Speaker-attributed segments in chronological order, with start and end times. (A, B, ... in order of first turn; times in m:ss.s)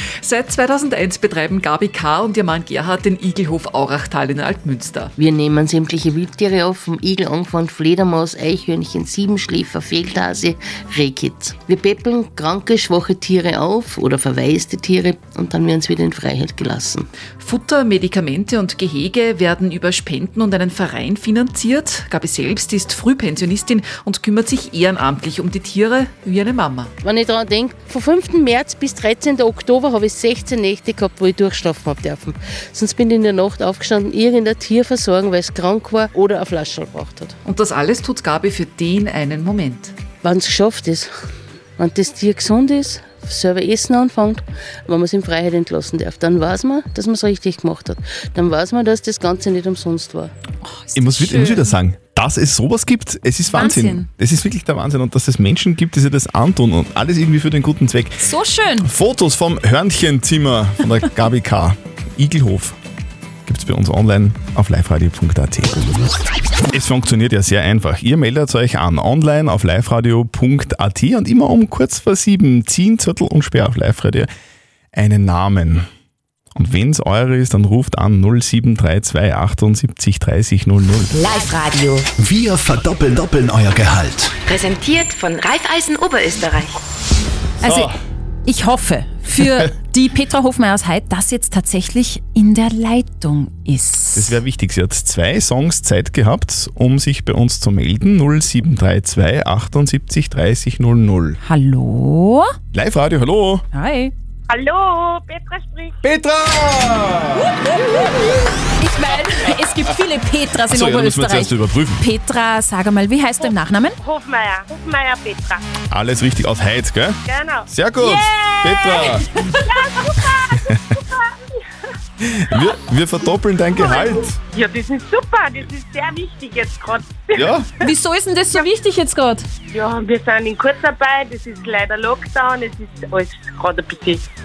0:00.2-0:05.1 A
0:05.2-0:17.1 B
0:17.4-0:26.9 A
0:27.0-0:37.4 B
0:37.4-0:40.0 A
0:40.2-0:41.1 B
0:41.8-0:50.3 B
0:50.6-0:51.7 C
0:51.0-0:58.3 D
0:53.5-0:54.1 C
0:58.2-0:58.9 C
0:58.8-1:02.8 D
1:03.5-1:05.8 D
1:06.7-1:14.3 D
1:14.9-1:15.8 D
1:16.6-1:21.2 D
1:21.2-1:22.0 E
1:22.2-1:24.3 F
1:24.5-1:26.7 E
1:27.6-1:27.9 C
1:27.6-1:27.9 D
1:28.5-1:34.4 C
1:34.2-1:41.4 D
1:41.4-1:42.5 C
1:42.7-1:43.6 D
1:43.7-1:44.1 C
1:44.5-1:45.9 G
1:46.0-1:47.5 D
1:47.4-1:48.2 C
1:48.8-1:54.0 C
1:50.7-1:52.0 D
1:54.0-1:55.6 G
1:55.9-1:59.3 D
1:57.3-1:57.7 G
1:58.0-1:59.7 C
2:02.2-2:04.4 D
2:04.6-2:07.3 G
2:07.4-2:07.7 D
2:07.8-2:09.5 C
2:09.7-2:14.2 G